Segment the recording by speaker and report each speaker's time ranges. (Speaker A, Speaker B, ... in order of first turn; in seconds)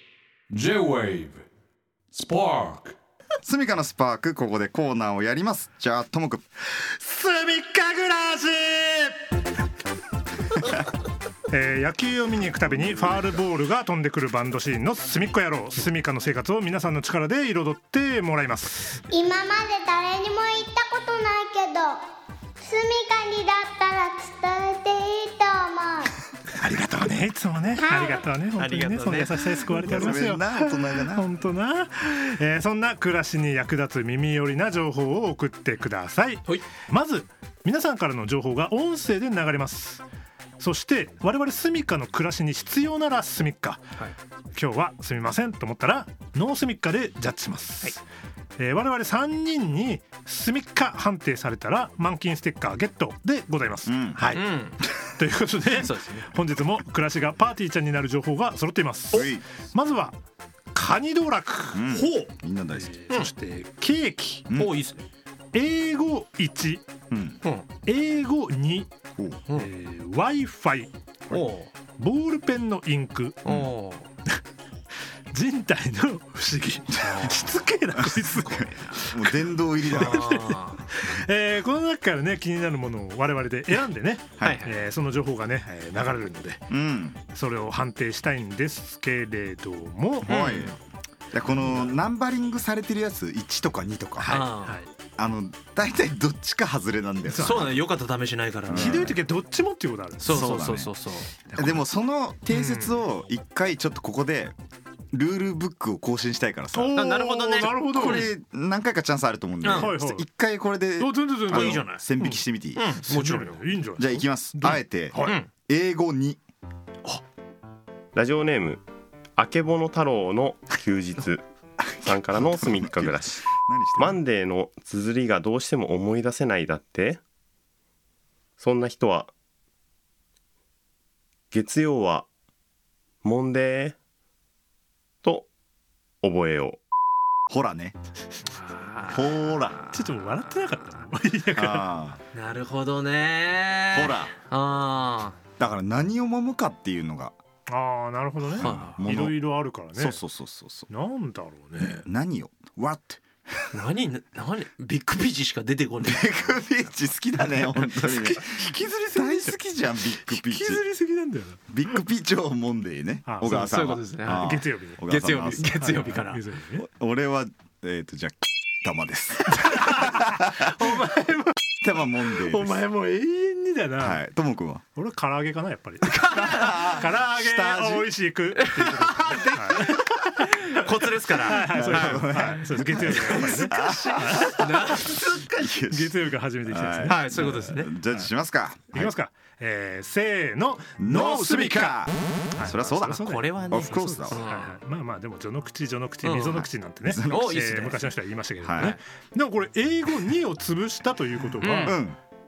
Speaker A: 0.5-1.4, 2.1-3.0, 6.8-9.2, 11.5-19.0, 26.6-40.0, 40.6-43.8, 44.6-48.0, 48.6-54.4, 55.2-60.2, 60.7-61.8, 62.8-64.4, 65.5-66.8, 67.9-68.9, 69.5-70.9, 72.0-73.4, 75.3-78.5, 79.9-86.6, 87.3-90.3, 91.6-92.0, 94.2-94.9, 97.3-97.7, 98.8-100.5, 101.5-101.9, 102.6-103.0, 106.7-108.3, 109.7-110.3, 111.0-112.4, 113.1-115.4, 139.9-141.8, 147.7-150.2, 150.9-152.1, 159.2-159.6, 160.3-161.6, 163.3-163.8, 164.3-165.0, 165.6-166.9, 169.7-171.5, 172.5-174.1, 175.0-180.7, 181.4-185.0, 185.8-187.3, 188.9-192.0, 192.6-202.0
Speaker B: 3.4-6.4, 29.8-31.3, 53.9-54.2, 59.1-59.5, 61.7-63.0, 67.1-67.4, 69.2-69.4, 77.9-80.3, 84.4-84.7, 86.7-87.2, 90.2-90.8, 91.3-94.4, 95.2-97.9, 98.7-99.2, 100.3-101.0, 101.6-104.5, 105.1-107.0, 107.6-112.8, 114.0-116.4, 121.8-124.2, 137.5-138.0, 139.1-139.8, 141.6-142.2, 143.9-144.4, 145.6-147.3, 148.5-150.9, 151.8-153.2, 156.0-160.8, 161.7-166.1, 166.8-171.0, 171.8-172.9, 174.0-174.8, 176.0-178.1, 181.5-189.1, 191.0-194.4, 196.5-197.6, 198.6-199.0, 201.8-202.2
Speaker C: 19.1-22.0, 22.6-26.1, 27.8-28.3
Speaker D: 28.6-30.2, 54.3-54.8, 55.7-56.3, 61.9-62.3, 64.5-65.1, 71.3-71.7, 73.5-74.1, 77.0-79.0, 79.9-80.8, 84.4-84.8, 90.2-90.8, 94.3-94.8, 97.4-99.2, 100.2-101.3, 106.9-108.3, 109.6-109.9, 111.5-112.0, 112.8-113.6, 115.2-115.5, 138.5-140.1, 142.3-145.4, 148.6-149.0, 153.7-158.6, 163.4-166.4, 176.3-177.1, 178.6-185.7, 187.1-187.9, 193.0-194.8, 196.2-196.7, 197.3-199.0, 201.6-202.0
Speaker E: 118.1-118.8, 119.4-121.4, 122.0-127.2, 128.6-129.3, 131.5-132.3, 133.2-134.0, 135.2-135.5, 136.2-136.8